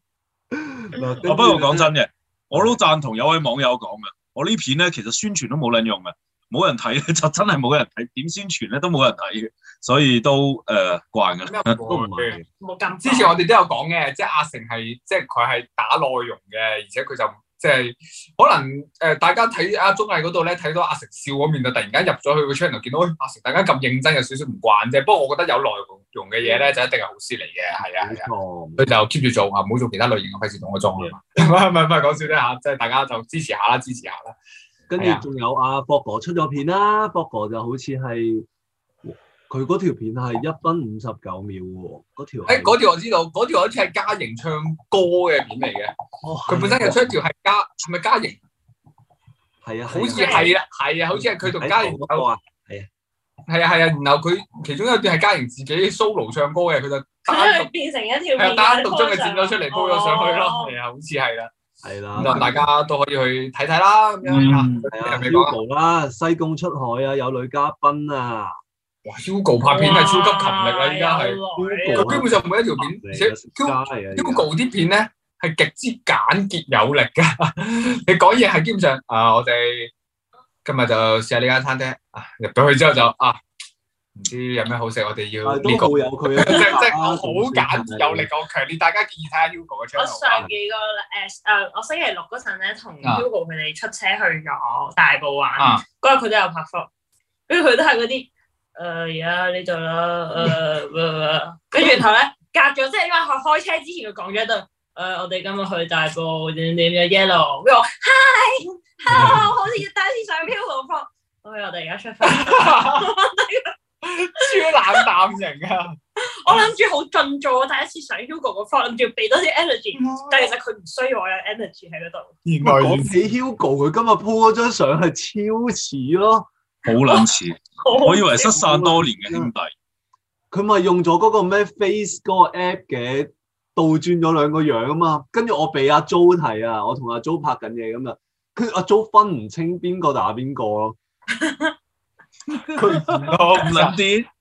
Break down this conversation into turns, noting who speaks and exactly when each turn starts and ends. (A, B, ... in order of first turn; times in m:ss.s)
0:00.5-0:01.9 A
0:01.2-0:11.8 B
0:02.5-0:02.8 A
0:11.4-0:12.4 C
0:11.8-0:12.5 A
0:12.6-0:13.4 D
0:13.0-0:34.3 C
0:26.4-0:26.8 D
0:28.0-0:29.0 A
0:34.9-0:38.5 A
0:35.0-0:35.2 C
0:39.0-0:42.8 A
0:42.4-0:45.9 C
0:46.2-0:47.1 A
0:46.5-0:48.4 C
0:49.6-0:50.6 A
0:49.9-0:52.3 C
0:50.1-0:50.5 D
0:51.1-0:52.9 A
0:53.5-0:57.7 C
0:57.2-1:00.8 D
0:58.4-1:01.5 C
1:01.8-1:02.6 A
1:02.2-1:05.5 C
1:04.3-1:04.7 B
1:04.9-1:08.6 A
1:09.0-1:11.4 C
1:09.6-1:12.2 D
1:11.6-1:14.5 A
1:11.9-1:19.9 C
1:20.6-1:23.4 C
1:24.2-1:30.5 C
1:25.4-1:28.3 A
1:30.0-1:36.9 D
1:35.6-1:35.8 C
1:37.5-1:53.7 D
1:52.2-1:53.1 C
1:54.0-1:56.0 C
1:54.4-1:55.1 D
1:56.2-2:02.3 D
2:00.0-2:00.5 C
2:02.4-2:03.2 C
2:02.6-2:06.5 A
2:06.8-2:09.7 B
2:07.8-2:08.6 D
2:08.4-2:09.5 A
2:10.5-2:21.0 A
2:21.4-2:21.7 D
2:22.5-2:24.3 B
2:22.8-2:24.0 C